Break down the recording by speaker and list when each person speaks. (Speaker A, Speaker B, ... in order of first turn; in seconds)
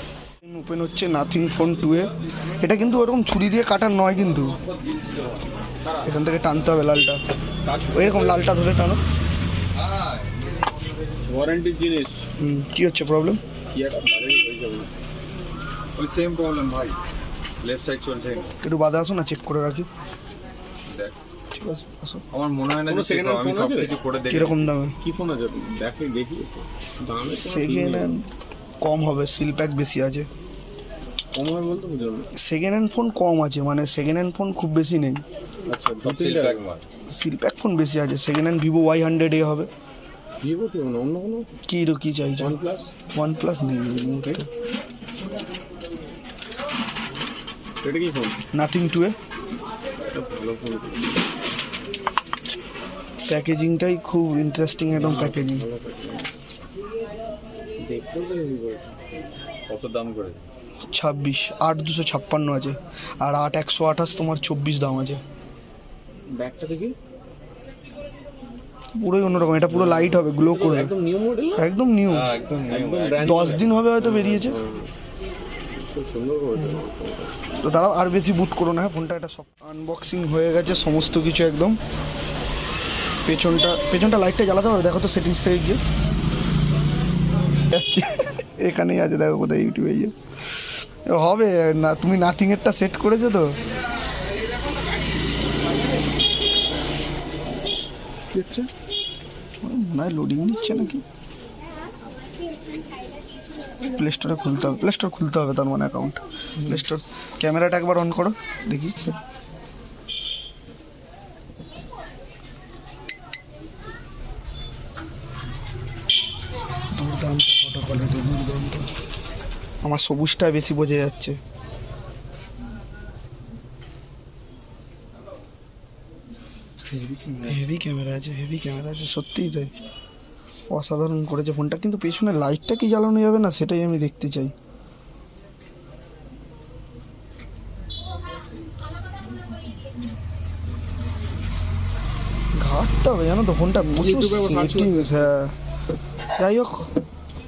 Speaker A: 0.4-4.6, 6.0-7.2, 7.9-9.0, 12.4-13.4, 18.6-19.9, 21.5-22.2, 24.3-24.9, 27.4-28.3, 28.8-30.3, 32.4-35.2, 37.1-39.7, 41.7-42.6, 43.1-44.5, 48.5-49.2, 53.3-55.7, 60.9-65.2, 69.0-70.9, 71.6-72.3, 73.2-74.6, 76.5-76.8, 77.6-81.8, 83.2-85.8, 87.7-93.5, 99.6-101.0, 103.8-109.1, 116.9-118.9, 119.8-121.4, 127.4-129.7, 130.7-134.5, 142.6-145.6, 146.4-146.9
Speaker B: 4.5-5.3, 9.7-10.6, 16.0-17.0, 17.6-18.6, 20.9-21.2, 22.3-24.8, 36.0-36.9, 59.7-60.4, 72.1-73.6
Speaker C: 5.8-6.1, 7.7-8.5, 11.3-12.3, 13.7-14.9, 22.9-24.0, 25.0-28.1, 31.4-32.3, 35.7-36.6, 40.4-41.5, 42.4-42.9, 47.8-48.4, 50.1-51.2, 54.9-56.3, 57.8-58.9, 66.3-67.0, 69.7-71.7, 72.7-74.9, 75.9-77.4, 98.3-98.7, 126.8-127.6, 143.8-145.3